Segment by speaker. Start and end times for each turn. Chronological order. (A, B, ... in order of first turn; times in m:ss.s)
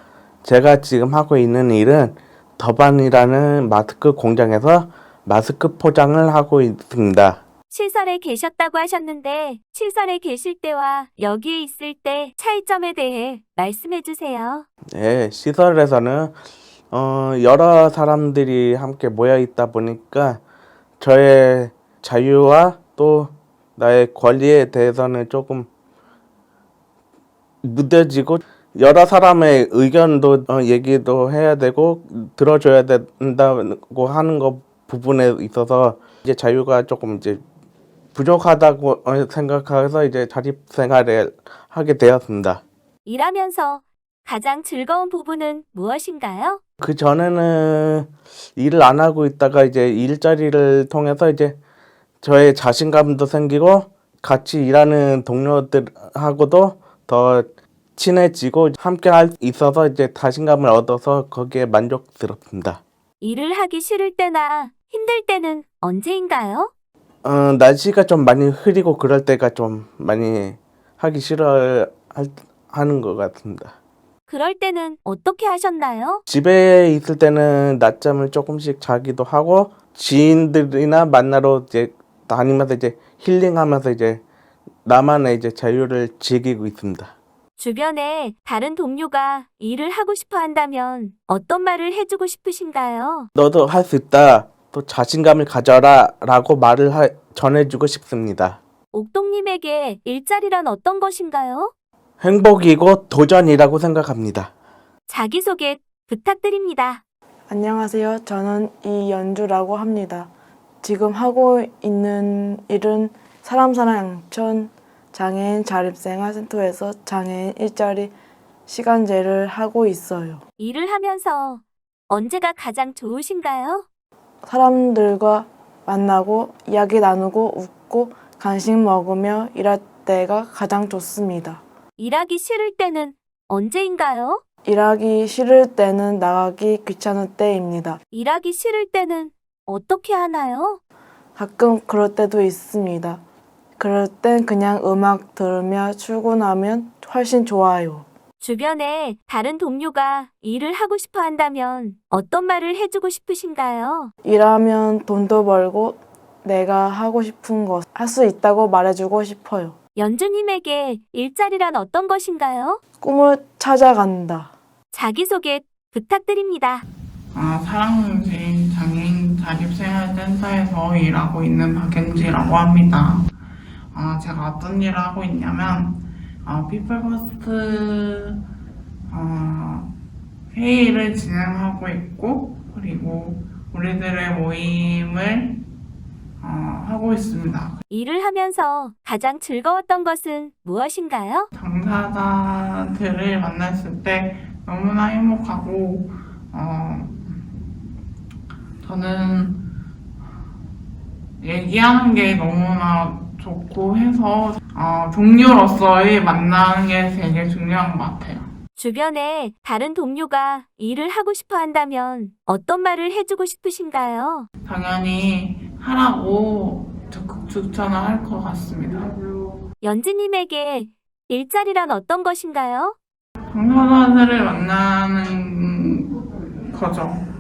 0:00.4-0:07.4 A
0:07.7-0:14.7 B
0:14.9-0:16.4 A
0:16.9-0:20.4 A
0:21.0-0:25.7 A
0:27.6-0:37.4 A
0:38.2-0:42.6 A
0:43.0-0:46.6 B
0:46.8-0:51.6 A
0:52.2-1:02.8 A
1:03.2-1:06.7 B
1:07.2-1:13.7 A
1:14.3-1:16.2 B
1:16.3-1:24.2 A
1:24.8-1:27.1 A
1:27.6-1:33.3 B
1:33.4-1:38.6 A
1:38.9-1:41.7 B
1:42.2-1:44.5 A
1:45.1-1:47.0 B
1:47.5-1:50.3 C
1:50.8-1:58.1 C
1:58.7-2:00.4 C
2:00.6-2:03.9 B
2:04.4-2:11.6 C
2:12.0-2:14.4 B
2:14.6-2:18.0 C
2:18.1-2:20.8 B
2:21.4-2:23.2 C
2:23.8-2:28.1 C
2:28.4-2:34.1 B
2:34.2-2:39.8 C
2:40.0-2:42.8 B
2:43.0-2:44.5 C
2:44.9-2:46.8 B
2:47.3-2:53.3 D
2:53.9-2:58.4 D
2:59.1-2:59.9 D
3:00.5-3:05.6 D
3:06.4-3:07.8 D
3:07.9-3:11.5 B
3:11.5-3:17.4 D
3:18.8-3:19.6 D
3:21.4-3:28.5 D
3:28.8-3:34.5 B
3:34.6-3:39.5 D
3:39.8-3:43.0 B
3:43.5-3:47.2 D